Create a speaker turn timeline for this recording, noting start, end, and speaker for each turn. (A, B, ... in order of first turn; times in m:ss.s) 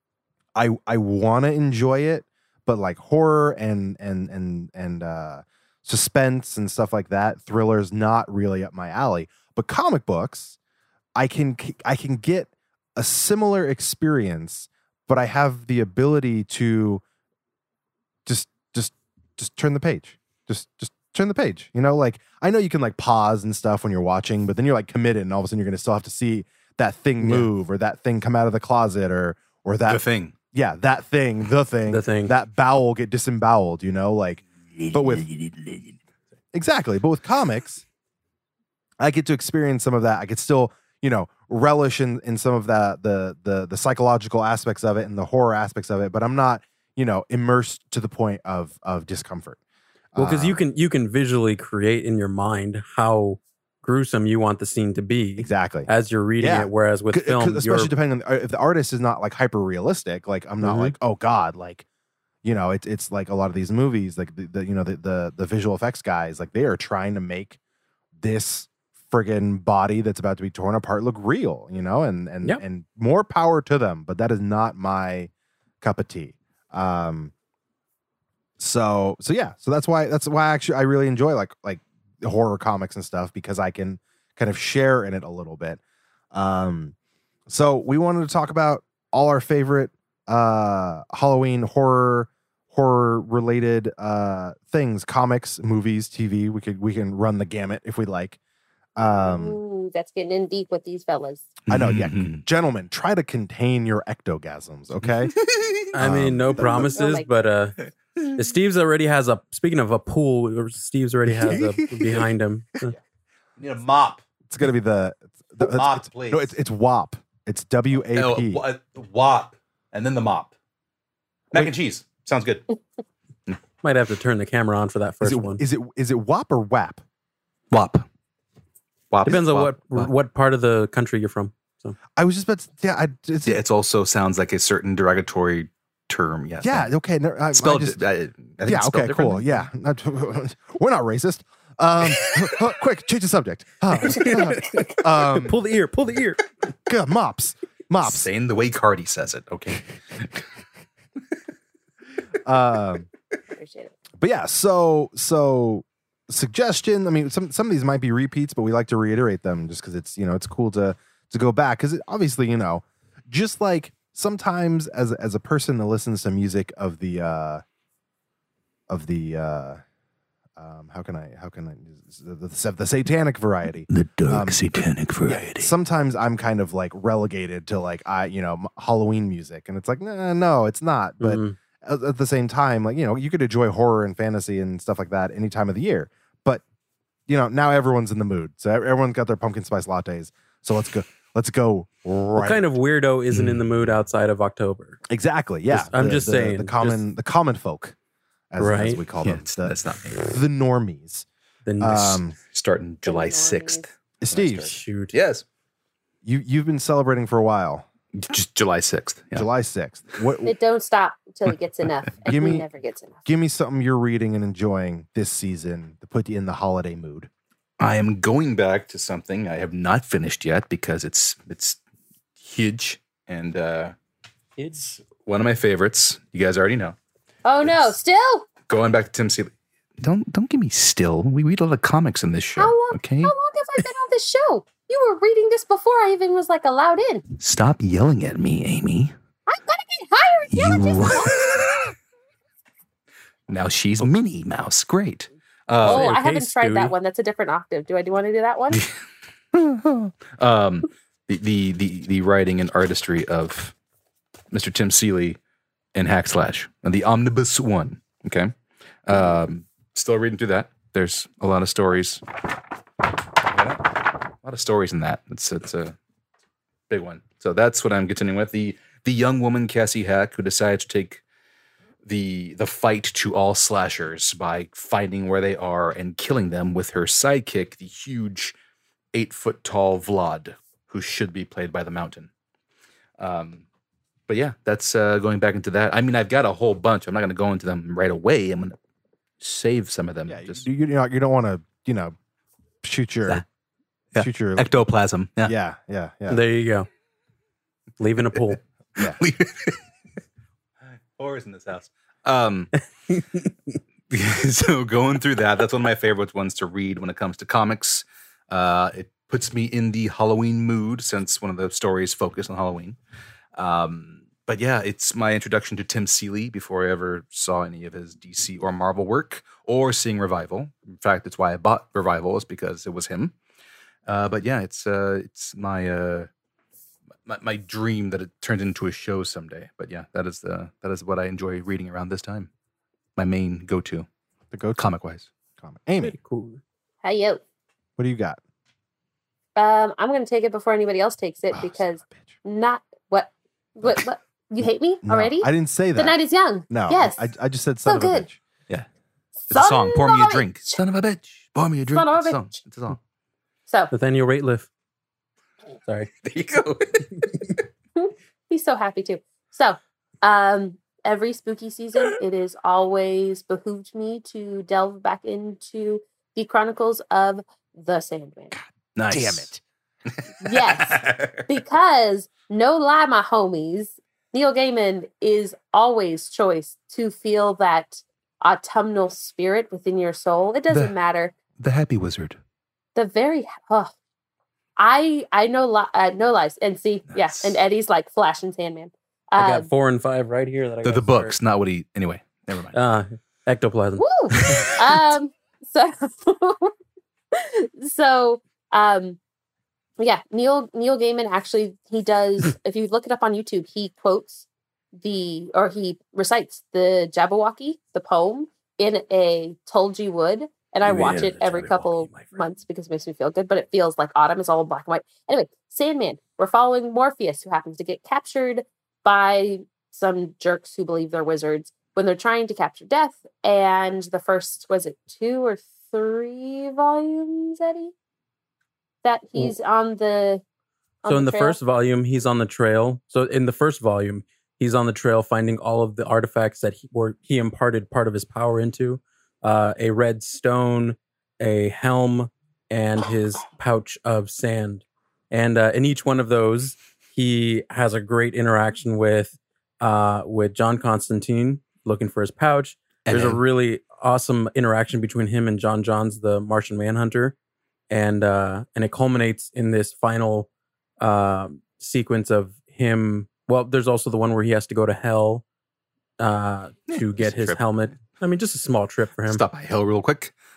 0:00.5-0:10.6 A
0:11.2-0:17.0 A
0:18.2-0:35.3 A
0:27.2-0:27.5 B
0:29.9-0:30.3 C
0:31.9-0:32.3 B
0:34.7-0:35.9 C
0:36.5-0:37.8 A
0:39.0-0:49.6 A
0:50.1-0:50.6 A
0:50.2-0:57.9 B
0:55.4-1:01.8 A
1:00.6-1:00.9 B
1:02.4-1:07.6 A
1:08.2-1:15.3 A
1:15.8-1:17.3 A
1:18.6-1:25.8 A
1:26.3-1:26.9 A
1:27.5-1:38.4 A
1:39.0-1:39.6 A
1:39.2-1:41.6 D
1:41.7-1:42.4 C
1:41.7-1:45.3 A
1:45.0-1:45.8 C
1:45.9-1:47.8 B
1:46.0-1:47.0 A
1:46.6-1:47.3 D
1:48.3-1:52.9 B
1:51.3-1:52.1 A
1:53.6-1:54.2 C
1:54.5-1:58.6 A
1:55.6-1:56.5 C
1:58.1-2:00.5 C
2:01.5-2:02.6 C
2:03.8-2:05.6 B
2:05.2-2:07.0 A
2:07.7-2:08.0 C
2:09.1-2:10.1 C
2:09.2-2:12.0 B
2:12.2-2:13.6 A
2:13.4-2:16.9 C
2:16.6-2:18.0 A
2:17.5-2:19.6 C
2:18.6-2:25.6 A
2:22.1-2:22.6 C
2:24.0-2:26.4 B
2:24.1-2:24.8 D
2:26.9-2:28.3 A
2:28.0-2:30.4 C
2:32.4-2:33.1 A
2:33.5-2:33.9 D
2:34.2-2:47.6 A
2:48.9-2:49.8 A
2:50.6-2:54.6 A
2:53.9-2:55.7 C
2:55.2-3:06.6 A
3:01.2-3:01.6 B
3:07.3-3:12.7 A
3:12.4-3:15.0 B
3:13.3-3:13.9 C
3:15.1-3:18.0 A
3:15.7-3:17.0 B
3:18.5-3:21.2 A
3:18.6-3:19.0 B
3:19.2-3:20.3 C
3:21.6-3:22.2 B
3:21.8-3:22.4 A
3:22.5-3:25.4 C
3:23.0-3:23.8 D
3:24.2-3:24.7 A
3:24.6-3:25.1 B
3:26.2-3:27.8 A
3:28.1-3:29.5 C
3:29.3-3:30.5 A
3:30.4-3:33.3 D
3:32.2-3:32.6 A
3:33.2-3:37.3 A
3:37.8-3:41.8 C
3:42.4-3:43.9 C
3:44.6-3:45.0 B
3:45.0-3:47.0 C
3:47.4-3:48.5 D
3:47.6-3:47.9 C
3:48.7-3:53.3 C
3:52.6-3:57.2 D
3:57.4-3:59.1 C
3:59.5-4:01.7 D
4:00.5-4:01.9 C
4:03.5-4:06.1 C
4:05.8-4:08.8 D
4:05.8-4:06.9 B
4:09.5-4:13.7 C
4:14.5-4:15.4 C
4:15.9-4:18.5 C
4:19.0-4:22.2 C
4:23.4-4:26.0 C
4:26.9-4:31.2 C
4:32.0-4:38.5 C
4:39.1-4:42.3 C
4:43.2-4:43.6 C
4:44.3-4:48.8 C
4:49.4-4:50.6 C
4:50.3-4:52.1 A
4:52.8-4:53.4 A
4:54.1-4:55.5 C
4:54.2-4:54.7 A
4:55.4-4:56.4 A
4:56.3-4:56.9 B
4:58.0-4:58.6 B
4:59.0-4:59.8 C
5:00.9-5:02.7 C
5:03.1-5:03.5 B
5:04.1-5:13.0 C
5:13.6-5:23.3 C
5:24.1-5:26.3 C
5:27.2-5:32.5 C
5:33.2-5:34.1 C
5:34.5-5:34.9 A
5:34.8-5:35.3 C
5:35.6-5:36.2 A
5:36.0-5:36.6 B
5:37.0-5:37.4 D
5:38.0-5:38.4 A
5:39.6-5:47.3 D
5:41.5-5:42.3 A
5:45.0-5:46.2 A
5:46.7-5:48.4 A
5:47.8-5:48.3 D
5:49.5-5:50.8 D
5:49.5-5:53.0 C
5:51.9-5:52.6 D
5:53.9-5:54.7 B
5:56.2-5:57.2 C
5:58.0-6:08.5 D
6:09.0-6:09.5 C
6:09.1-6:09.6 A
6:10.1-6:11.4 C
6:10.4-6:21.3 D
6:20.7-6:20.9 C
6:21.6-6:22.4 C
6:22.9-6:23.9 D
6:24.8-6:29.7 D
6:27.1-6:27.6 C
6:29.4-6:31.3 B
6:30.8-6:32.8 C
6:32.7-6:34.7 B
6:34.0-6:36.7 D
6:34.4-6:35.1 C
6:37.3-6:39.2 D
6:40.0-7:07.9 D
6:50.9-6:52.2 B
6:50.9-6:52.1 C
7:09.0-7:10.4 D
7:11.0-7:11.6 D
7:11.1-7:37.4 B
7:33.0-7:33.4 C
7:37.9-7:40.5 B
7:41.0-7:45.4 B
7:46.2-7:49.4 B
7:46.9-7:47.6 C
7:49.2-7:50.3 C